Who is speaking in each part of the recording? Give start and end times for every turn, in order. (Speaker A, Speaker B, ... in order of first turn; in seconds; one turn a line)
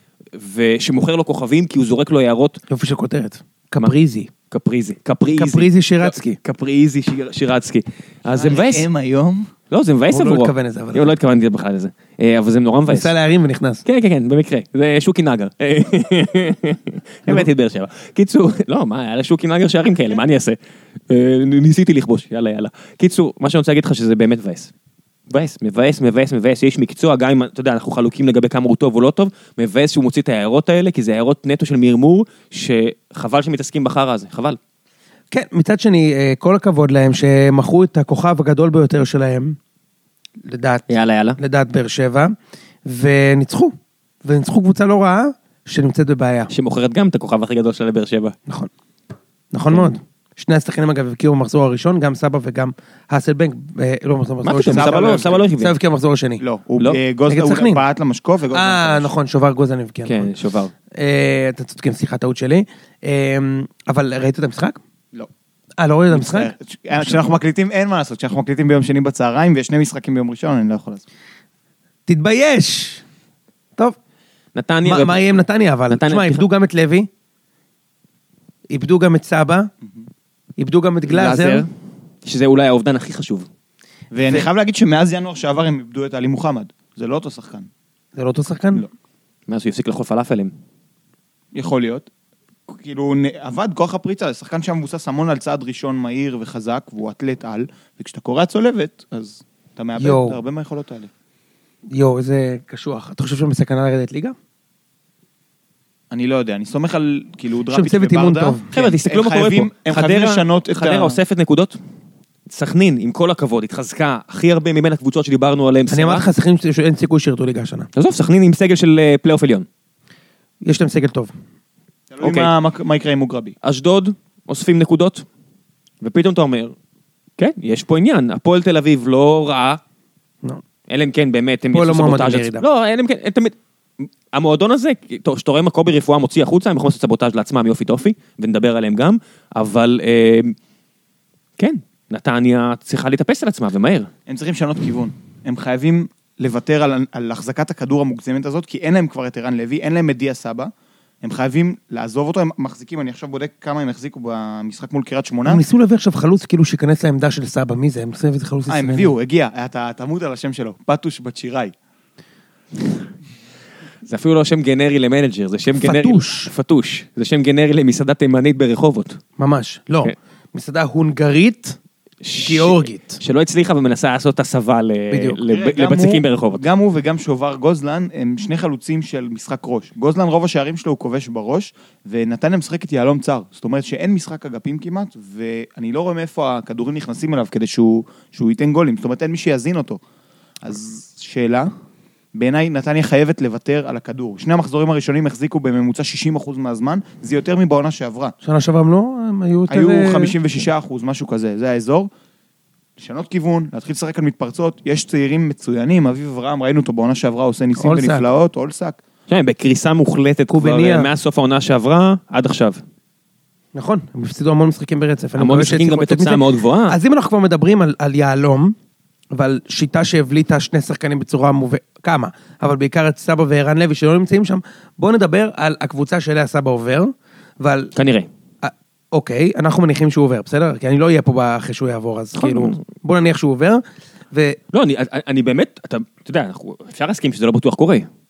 Speaker A: 0.3-2.6
Speaker B: 2.7-4.3
Speaker A: 4.5-8.8
Speaker B: 5.3-6.4
Speaker C: 8.3-9.5
Speaker A: 9.7-13.1
Speaker B: 10.1-11.1
Speaker B: 12.9-13.8
Speaker A: 13.8-20.6
Speaker A: 21.1-24.7
Speaker A: 25.3-34.6
Speaker B: 35.3-39.6
Speaker B: 40.5-40.9
Speaker A: 40.9-41.4
Speaker B: 41.4-46.5
Speaker A: 46.5-48.4
Speaker B: 49.5-56.4
Speaker A: 54.4-55.8
Speaker C: 54.7-55.4
Speaker C: 56.4-59.1
Speaker B: 57.3-57.8
Speaker B: 58.5-60.3
Speaker A: 60.0-60.7
Speaker B: 60.9-64.8
Speaker B: 65.8-67.2
Speaker C: 66.1-71.0
Speaker B: 72.1-73.0
Speaker A: 74.5-75.2
Speaker B: 74.8-77.1
Speaker A: 75.9-76.4
Speaker B: 78.7-79.7
Speaker B: 80.6-81.7
Speaker A: 81.1-81.7
Speaker A: 82.2-83.5
Speaker C: 84.1-87.7
Speaker B: 88.2-88.9
Speaker A: 89.5-90.5
Speaker C: 91.5-92.1
Speaker C: 92.7-101.1
Speaker B: 100.0-100.4
Speaker B: 101.9-104.4
Speaker C: 106.1-111.2
Speaker B: 107.7-108.7
Speaker A: 108.7-111.8
Speaker A: 112.5-116.3
Speaker B: 115.9-117.9
Speaker A: 118.0-119.7
Speaker B: 120.6-121.3
Speaker C: 122.1-123.5
Speaker A: 122.2-122.5
Speaker A: 123.6-125.3
Speaker A: 126.0-126.8
Speaker A: 127.4-129.8
Speaker A: 130.9-140.6
Speaker B: 131.7-132.7
Speaker A: 141.6-144.1
Speaker C: 144.3-150.7
Speaker C: 151.2-155.6
Speaker B: 155.5-159.1
Speaker C: 158.7-161.7
Speaker A: 164.1-169.2
Speaker B: 165.8-166.5
Speaker B: 169.4-171.8
Speaker A: 172.2-176.6
Speaker B: 172.4-173.2
Speaker B: 175.1-175.4
Speaker C: 175.5-190.0
Speaker C: 190.6-191.7
Speaker C: 192.3-198.3
Speaker B: 198.4-200.4
Speaker C: 199.7-202.1
Speaker C: 203.0-209.0
Speaker B: 207.8-208.2
Speaker A: 209.3-212.8
Speaker B: 210.5-211.1
Speaker B: 213.8-218.8
Speaker A: 215.4-217.0
Speaker B: 219.3-227.9
Speaker A: 228.0-228.3
Speaker B: 228.6-234.6
Speaker A: 232.4-232.8
Speaker A: 234.7-238.1